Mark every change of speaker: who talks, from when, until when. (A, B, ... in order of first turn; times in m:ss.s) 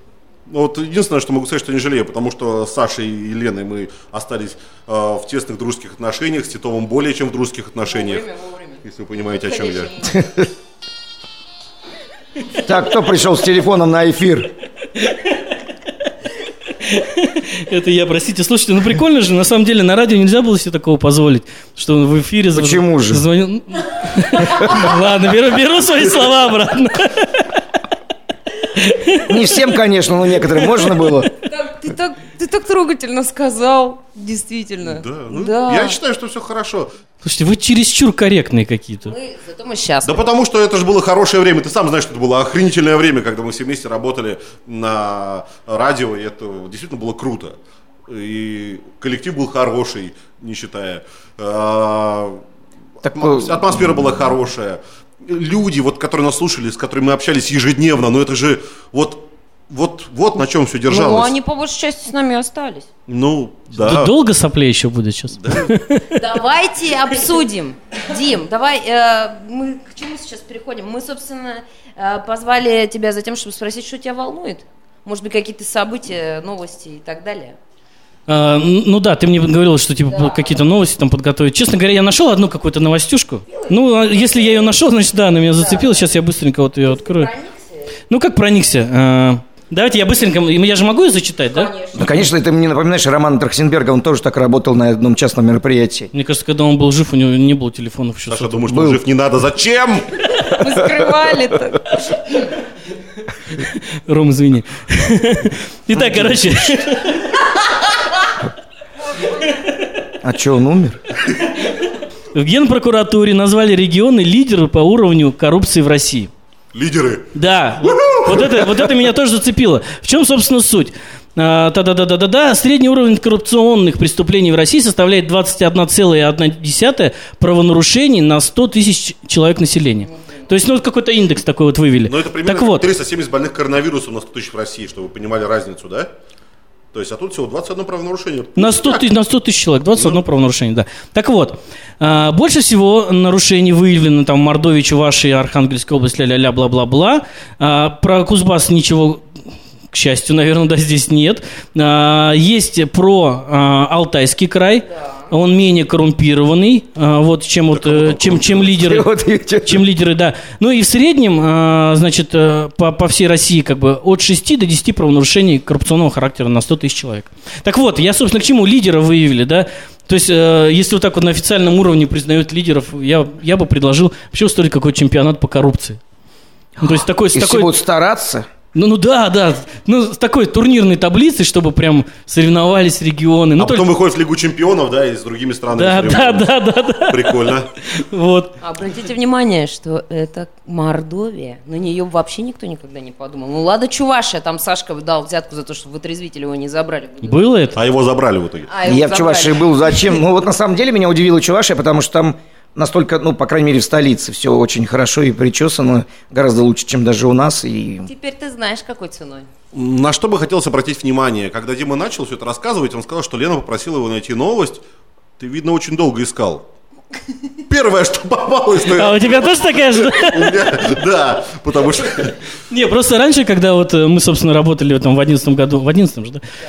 0:00.5-0:08.2 A
0:07.9-0:10.3 B
0:08.8-0:09.9 A
0:12.6-0:14.5 C
0:15.0-0:15.3 D
0:16.8-0:27.6 D
0:22.5-0:23.2 C
0:28.8-0:29.2 D
0:29.2-0:31.3 C
0:31.4-0:36.0 B
0:34.8-0:36.9 A
0:37.2-0:39.1 D
0:39.0-0:40.3 B
0:40.0-0:47.6 A
0:48.1-0:52.4 A
0:53.0-0:53.8 C
0:53.1-1:01.3 A
1:00.9-1:02.9 B
1:03.1-1:04.1 A
1:03.7-1:06.2 D
1:05.4-1:05.7 A
1:06.1-1:17.6 B
1:18.3-1:27.3 D
1:20.1-1:20.5 B
1:23.5-1:24.7 B
1:25.6-1:26.0 B
1:26.9-1:27.9 B
1:28.1-1:31.7 D
1:31.5-1:32.3 B
1:31.9-1:36.1 C
1:36.1-1:38.8 D
1:38.3-1:40.2 A
1:38.7-1:39.0 C
1:40.4-1:42.2 B
1:43.5-1:47.3 D
1:46.0-1:46.4 C
1:50.2-1:51.0 C
1:52.3-1:56.3 D
1:56.7-1:58.8 A
1:57.3-2:12.9 D
2:12.0-2:16.1 A
2:16.9-2:19.0 A
2:18.6-2:29.2 D
2:29.9-2:39.1 D
2:37.7-2:38.8 A
2:38.7-2:39.8 C
2:39.6-2:56.0 D
2:56.8-2:58.5 C
2:56.8-2:57.7 D
2:58.7-3:03.9 D
3:03.6-3:07.7 A
3:05.7-3:08.6 D
3:08.6-3:17.5 B
3:17.2-3:17.8 D
3:17.7-3:18.7 A
3:18.7-3:20.2 B
3:18.8-3:28.1 C
3:28.0-3:29.5 B
3:29.7-3:34.8 A
3:35.4-3:36.6 A
3:37.6-3:42.4 A
3:38.9-3:40.6 D
3:42.7-3:46.4 D